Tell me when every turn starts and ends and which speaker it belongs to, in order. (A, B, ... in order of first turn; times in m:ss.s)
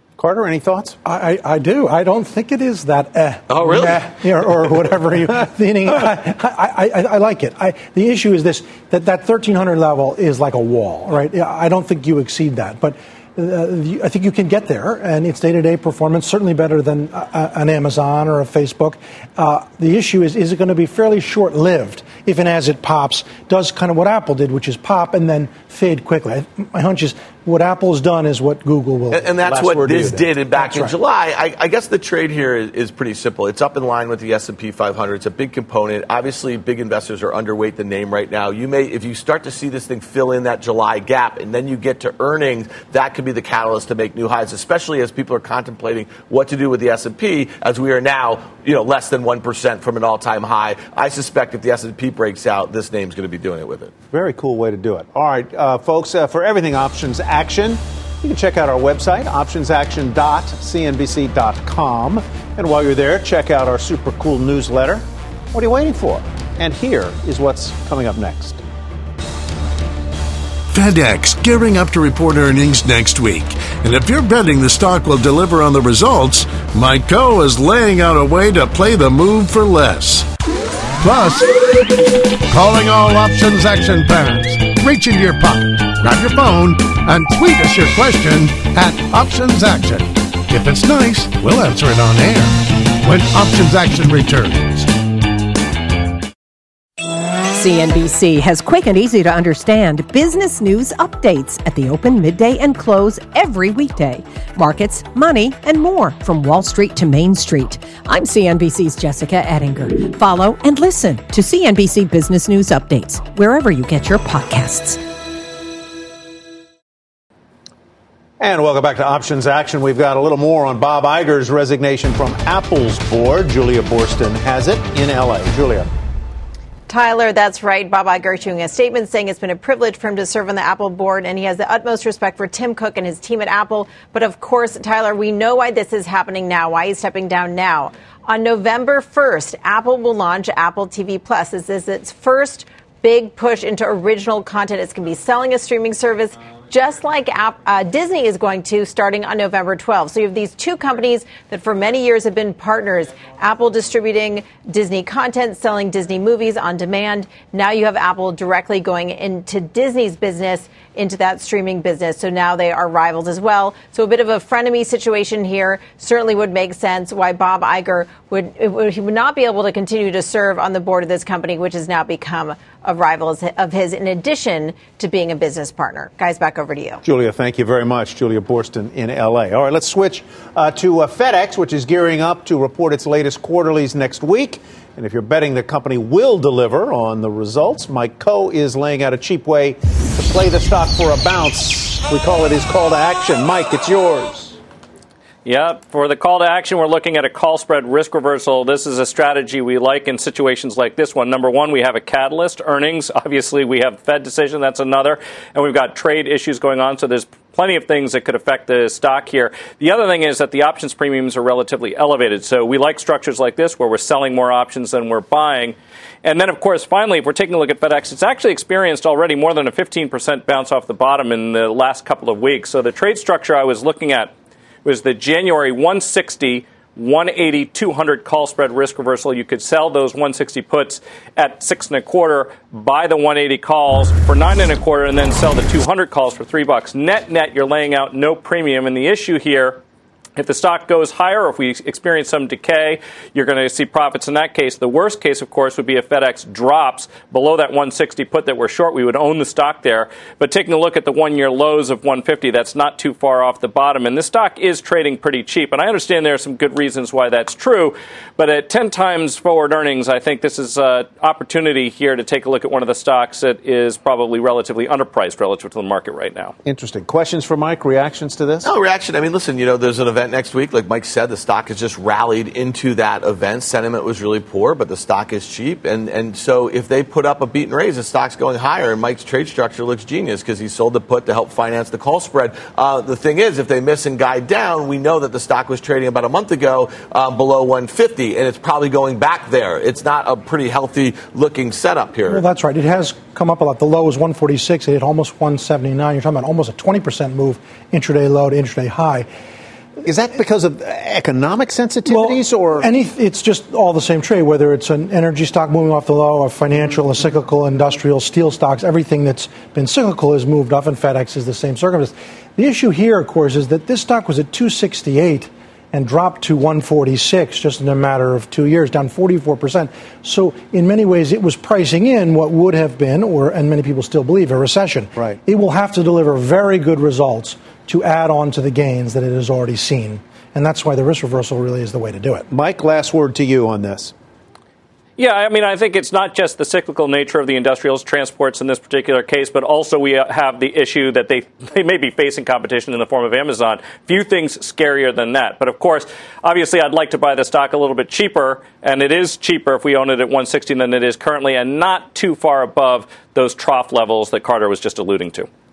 0:00.2-0:01.0 A
0:01.0-0:29.4 B
0:03.5-0:04.1 C
0:29.1-0:53.9 C
0:29.4-0:30.3 A
0:54.1-1:08.6 A
1:10.7-1:20.3 D
1:21.0-1:21.5 D
1:22.5-1:34.9 D
1:37.5-1:55.0 E
1:58.4-2:05.9 A
2:06.9-2:57.0 F
2:57.0-3:14.6 A
3:15.4-3:44.3 G
3:44.8-3:59.8 G
4:00.4-4:26.5 G
4:26.6-4:28.7 A
4:28.6-4:52.4 C
4:52.3-4:59.3 B
5:00.1-5:02.9 A
5:02.1-5:32.5 B
5:32.5-5:34.1 A
5:35.2-5:55.5 G